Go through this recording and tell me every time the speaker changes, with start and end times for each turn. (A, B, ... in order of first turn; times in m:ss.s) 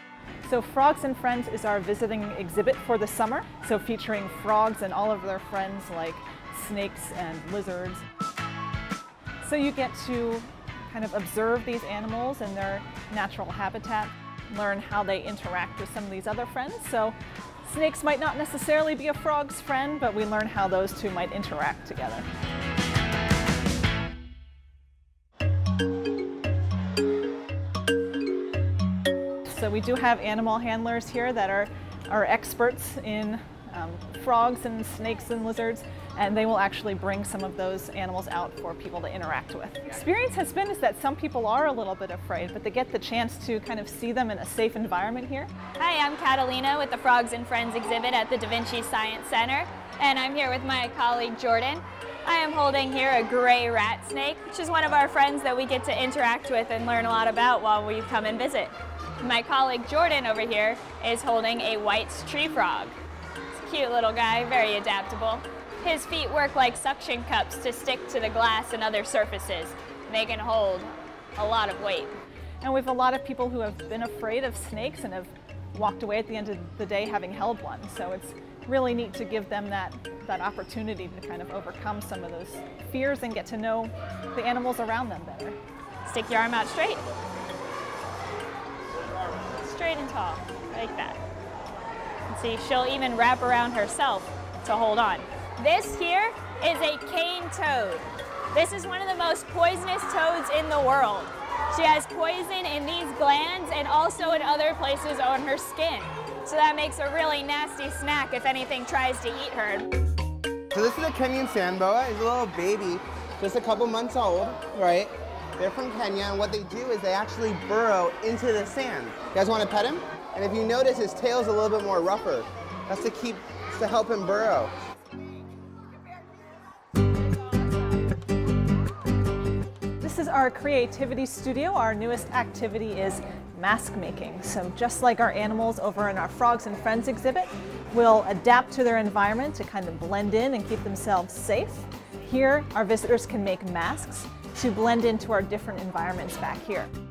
0:00.4-0:08.0 A
0:09.4-0:22.2 A
0:29.5-0:45.5 A
0:45.8-1:02.9 B
1:03.5-1:12.1 B
1:12.6-1:25.6 A
1:26.0-1:27.0 B
1:29.6-1:31.2 B
1:32.3-1:49.9 B
1:50.7-2:04.7 C
2:10.0-2:26.9 A